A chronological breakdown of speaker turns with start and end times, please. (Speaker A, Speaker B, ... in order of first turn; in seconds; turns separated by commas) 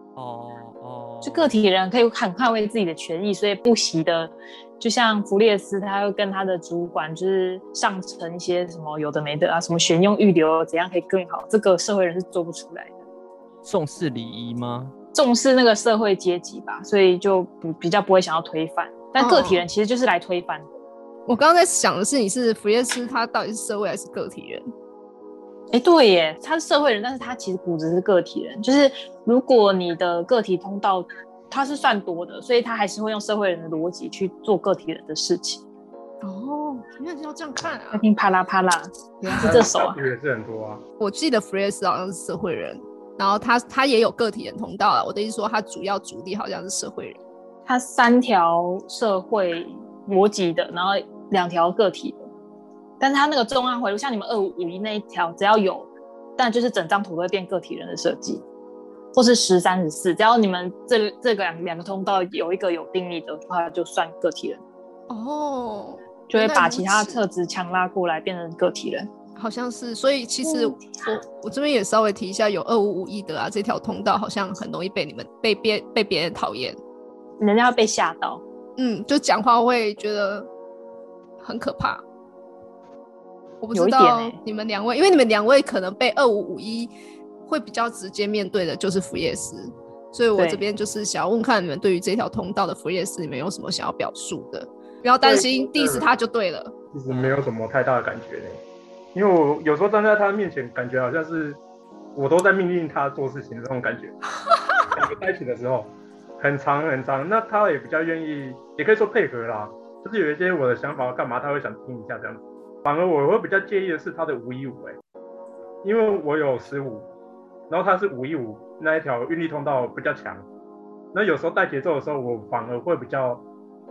Speaker A: 0.2-1.5, Speaker B: 1.2-13.0, Speaker A: 13.6-14.9, Speaker B: 15.1-20.7, Speaker C: 19.2-19.7, Speaker C: 21.3-24.6, Speaker B: 25.7-35.6, Speaker C: 36.2-38.1, Speaker B: 37.9-40.0, Speaker C: 39.3-39.6, Speaker D: 39.4-40.8, Speaker C: 41.0-47.2, Speaker B: 47.7-52.3, Speaker B: 53.0-58.4, Speaker B: 59.1-64.6, Speaker C: 65.1-67.2, Speaker B: 66.3-69.1, Speaker C: 69.4-76.8, Speaker B: 70.4-70.8, Speaker B: 77.4-78.4, Speaker C: 78.8-80.5, Speaker C: 81.4-82.0, Speaker C: 83.6-86.9, Speaker B: 83.7-84.4, Speaker C: 87.5-96.7, Speaker B: 90.3-90.7, Speaker D: 95.2-96.1, Speaker D: 96.9-98.6, Speaker A: 97.1-97.5, Speaker D: 99.1-101.6, Speaker D: 102.2-104.1, Speaker D: 105.0-115.0, Speaker D: 115.8-117.1, Speaker D: 117.7-120.5, Speaker D: 121.1-123.5